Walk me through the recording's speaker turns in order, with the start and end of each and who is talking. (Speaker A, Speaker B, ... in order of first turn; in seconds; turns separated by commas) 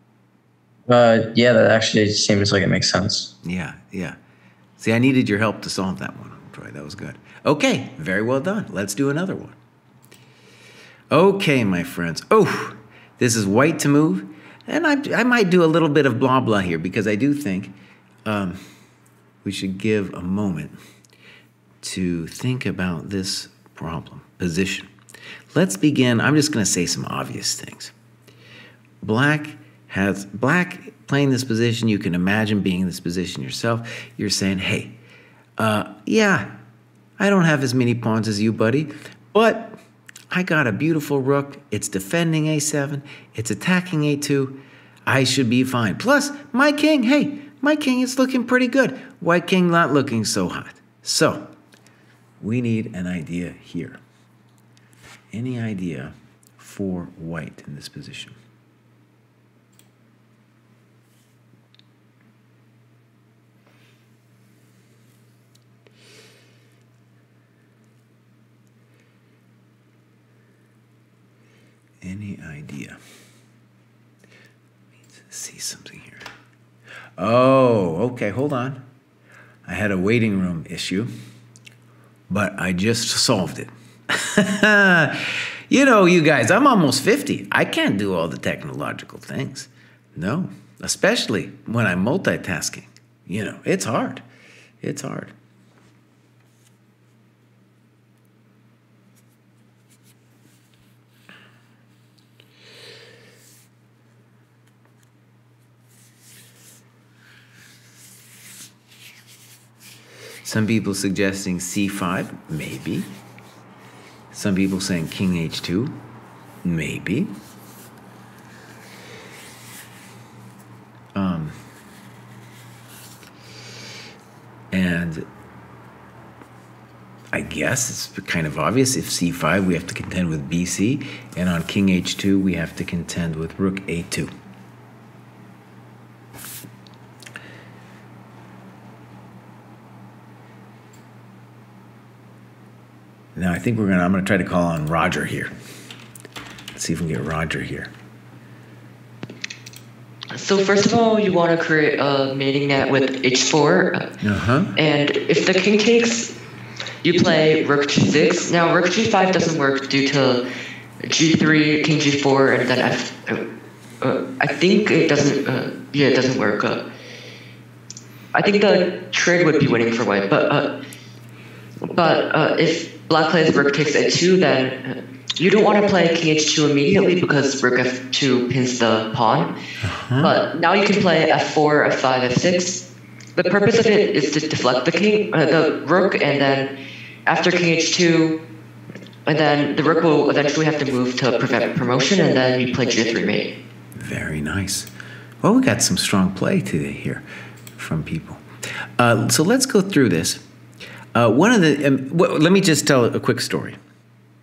Speaker A: 0.9-3.3, Speaker B: 3.4-4.2, Speaker B: 4.8-9.6, Speaker B: 11.1-17.7, Speaker B: 18.2-18.6, Speaker B: 19.4-20.8, Speaker B: 21.8-24.9, Speaker B: 25.5-27.9, Speaker B: 29.0-35.0, Speaker B: 35.6-36.5, Speaker B: 37.2-39.8, Speaker B: 40.3-51.5, Speaker B: 52.4-54.0, Speaker B: 55.3-58.4, Speaker B: 72.0-73.0, Speaker B: 75.1-76.2, Speaker B: 77.2-78.8, Speaker B: 79.7-81.1, Speaker B: 82.3-94.2, Speaker B: 94.8-95.3, Speaker B: 110.4-113.1, Speaker B: 114.3-116.0, Speaker B: 116.6-117.3, Speaker B: 121.2-121.6, Speaker B: 124.7-125.3, Speaker B: 127.3-134.3, Speaker B: 143.4-145.5, Speaker B: 146.8-147.9, Speaker C: 150.3-154.1, Speaker B: 154.2-154.8, Speaker C: 154.8-156.3, Speaker C: 157.0-160.4, Speaker C: 161.0-163.4, Speaker C: 164.0-166.8, Speaker C: 168.3-170.7, Speaker C: 171.8-179.5, Speaker B: 179.8-180.3, Speaker C: 180.2-182.8, Speaker C: 183.4-186.7, Speaker C: 187.3-188.3, Speaker C: 189.3-193.5, Speaker B: 194.0-194.9, Speaker B: 195.4-197.2, Speaker B: 197.8-198.4, Speaker B: 199.0-200.4, Speaker B: 201.1-203.8